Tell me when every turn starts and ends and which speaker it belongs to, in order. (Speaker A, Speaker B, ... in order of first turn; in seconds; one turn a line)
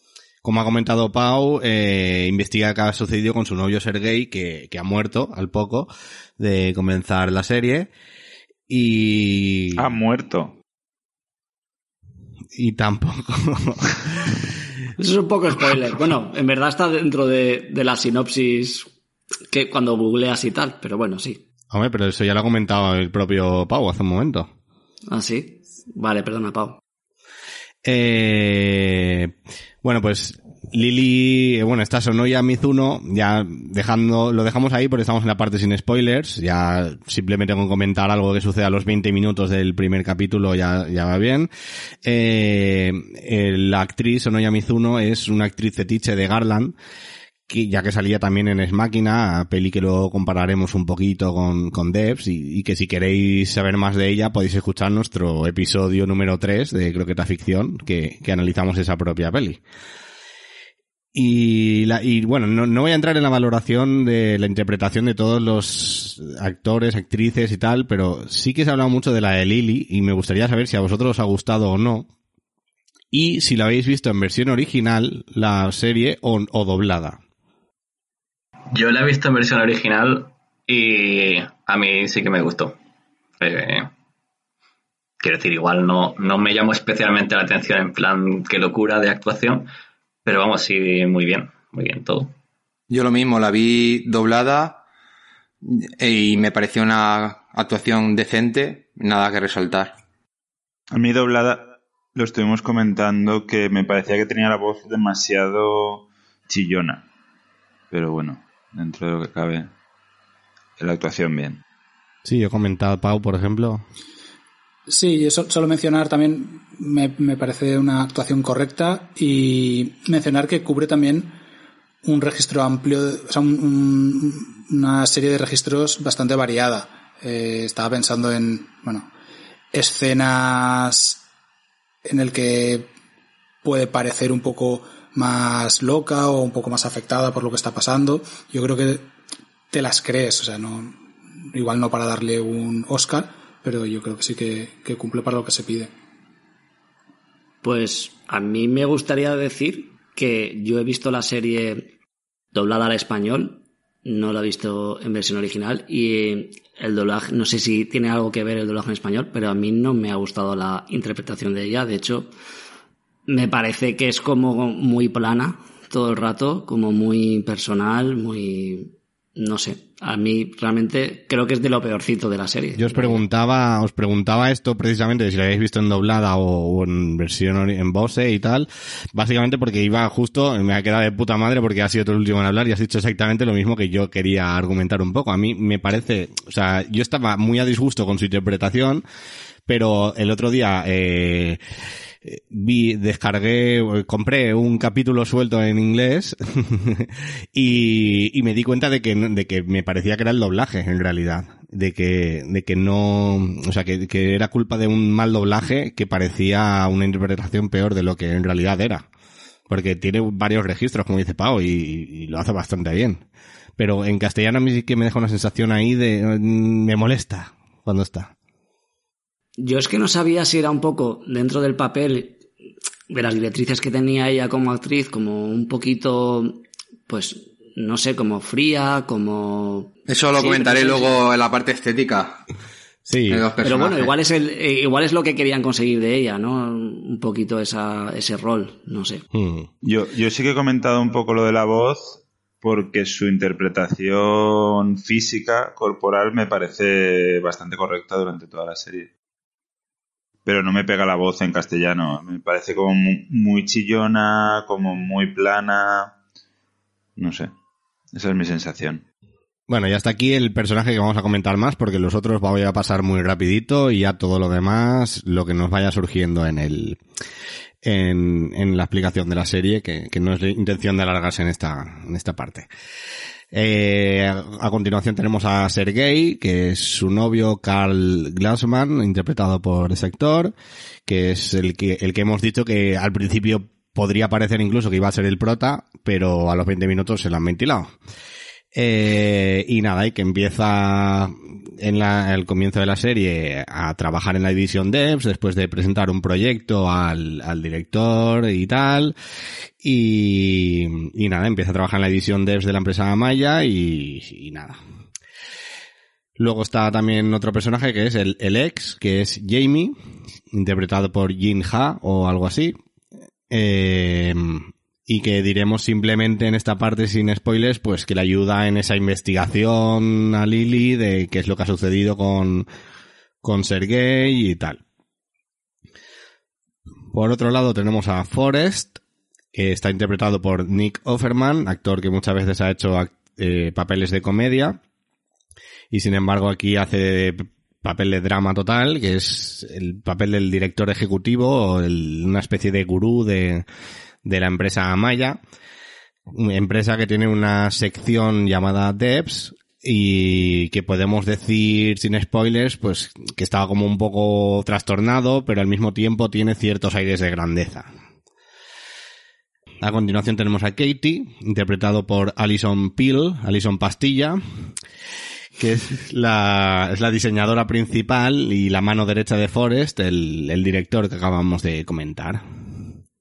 Speaker A: 0.4-7.9
Speaker A: 8.7-9.9
Speaker B: 9.8-10.5
Speaker A: 12.5-14.3
Speaker C: 15.0-18.9
Speaker C: 19.5-21.4
Speaker A: 21.7-24.5
Speaker C: 25.1-26.8
Speaker A: 27.8-41.5
Speaker A: 42.0-46.8
Speaker A: 47.5-59.6
Speaker A: 61.1-72.1
Speaker A: 73.1-77.2
Speaker D: 78.7-82.8
Speaker D: 83.4-83.9
Speaker D: 85.2-89.7
Speaker D: 90.2-92.3
Speaker E: 92.9-94.8
Speaker E: 95.6-99.9
Speaker B: 100.9-107.0
Speaker B: 107.9-109.7
Speaker B: 110.8-111.6
Speaker A: 112.2-113.8
Speaker F: 114.9-121.4
Speaker F: 122.0-129.1
Speaker F: 129.7-131.2
Speaker F: 132.0-132.9
Speaker F: 133.6-139.1
Speaker F: 139.7-145.9
Speaker C: 147.6-151.9
Speaker C: 152.5-162.3
Speaker C: 163.3-173.2
Speaker A: 172.8-189.0
Speaker A: 189.7-191.6
Speaker A: 192.2-209.1
Speaker A: 209.7-213.2
Speaker A: 213.8-218.3
Speaker C: 219.6-222.4
Speaker C: 223.1-231.1
Speaker E: 230.1-232.4
Speaker A: 233.0-233.4
Speaker E: 233.3-234.1
Speaker C: 233.6-239.2
Speaker A: 239.3-239.7
Speaker B: 239.8-249.1
Speaker B: 250.4-256.1
Speaker B: 257.2-257.5
Speaker B: 258.1-259.0
Speaker A: 259.7-267.0
Speaker A: 267.8-272.7
Speaker A: 273.5-280.5
Speaker A: 281.1-287.9
Speaker A: 288.7-299.1
Speaker A: 299.8-304.8
Speaker A: 306.4-309.9
Speaker A: 310.5-312.8
Speaker A: 313.5-322.7
Speaker A: 323.4-324.8
Speaker A: 327.1-329.0
Speaker A: 329.5-334.8
Speaker A: 335.9-343.6
Speaker A: 344.2-345.4
Speaker A: 346.3-357.9
Speaker A: 359.8-364.4
Speaker A: 365.6-372.4